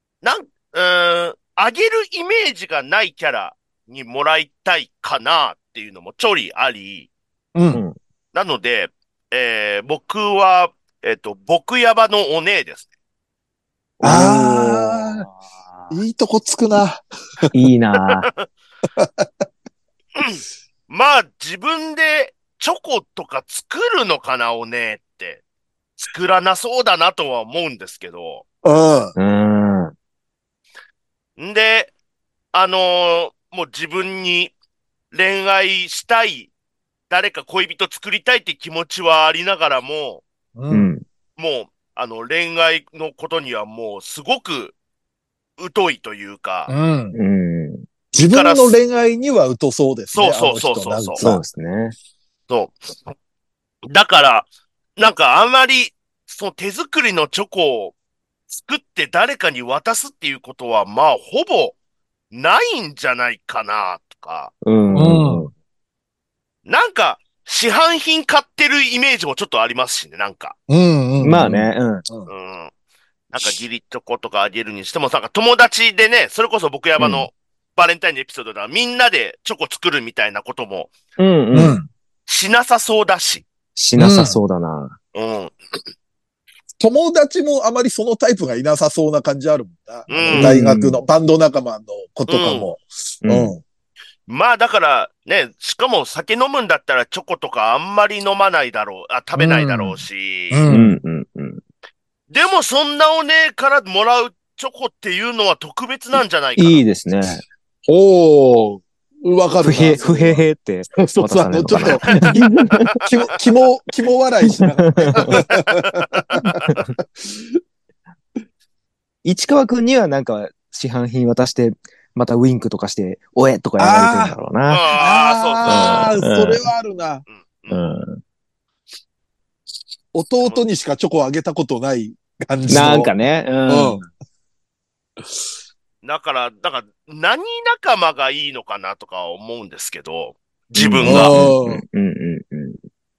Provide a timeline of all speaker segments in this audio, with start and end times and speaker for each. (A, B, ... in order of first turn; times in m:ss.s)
0:00.2-0:07.1 A
0:07.6-0:07.8 B
0:08.3-0:12.9 A
0:14.0-0:15.2 B
0:14.0-0:16.0 C
0:15.9-0:17.5 B
0:17.5-0:18.3 C
0:18.0-0:18.5 A
0:19.0-0:19.3 B
0:20.2-0:25.4 A
0:26.0-0:28.4 A
0:28.6-0:29.2 B
0:29.2-0:29.9 C
0:31.4-0:31.9 A
0:32.5-0:34.5 A
0:35.1-0:36.5 A
0:37.1-0:40.2 A
0:40.6-0:40.9 B
0:40.7-0:41.0 C
0:41.4-0:44.8 A
0:45.6-0:46.7 A
0:46.7-0:47.2 B
0:47.1-0:47.9 C
0:48.1-0:51.4 B
0:48.2-0:48.8 A
0:50.1-0:51.2 A
0:51.2-0:52.0 C
0:52.5-0:53.1 A
0:53.9-0:54.5 A
0:55.0-0:57.9 A
0:58.5-1:01.8 A
1:02.3-1:04.5 A
1:04.6-1:05.5 C
1:04.9-1:05.5 B
1:06.7-1:10.6 A
1:10.7-1:12.3 B
1:11.2-1:12.0 C
1:12.3-1:12.7 A
1:13.3-1:20.9 A
1:17.0-1:17.3 C
1:21.2-1:21.8 C
1:21.5-1:21.9 B
1:22.3-1:23.4 A
1:23.8-1:25.0 C
1:24.0-1:24.4 B
1:25.1-1:25.5 A
1:26.8-1:33.6 B
1:30.1-1:30.5 A
1:30.3-1:31.0 C
1:32.3-1:32.7 A
1:33.2-1:33.6 C
1:34.3-1:40.7 A
1:39.3-1:41.0 B
1:40.7-1:41.6 C
1:42.3-1:46.8 A
1:46.6-1:47.4 C
1:47.9-1:50.4 B
1:49.6-1:53.0 C
1:51.0-1:52.2 B
1:51.8-1:52.3 A
1:53.0-1:56.6 B
1:54.5-1:55.3 C
1:55.2-1:56.8 A
1:56.4-1:56.9 C
1:57.2-1:57.6 B
1:59.2-2:04.8 C
2:03.8-2:04.4 B
2:04.7-2:06.2 A
2:05.0-2:07.2 B
2:05.7-2:06.6 C
2:07.3-2:07.9 A
2:07.7-2:08.2 C
2:10.1-2:13.2 B
2:12.7-2:14.1 C
2:13.7-2:14.0 B
2:16.0-2:21.4 A
2:20.7-2:22.8 C
2:21.0-2:21.8 B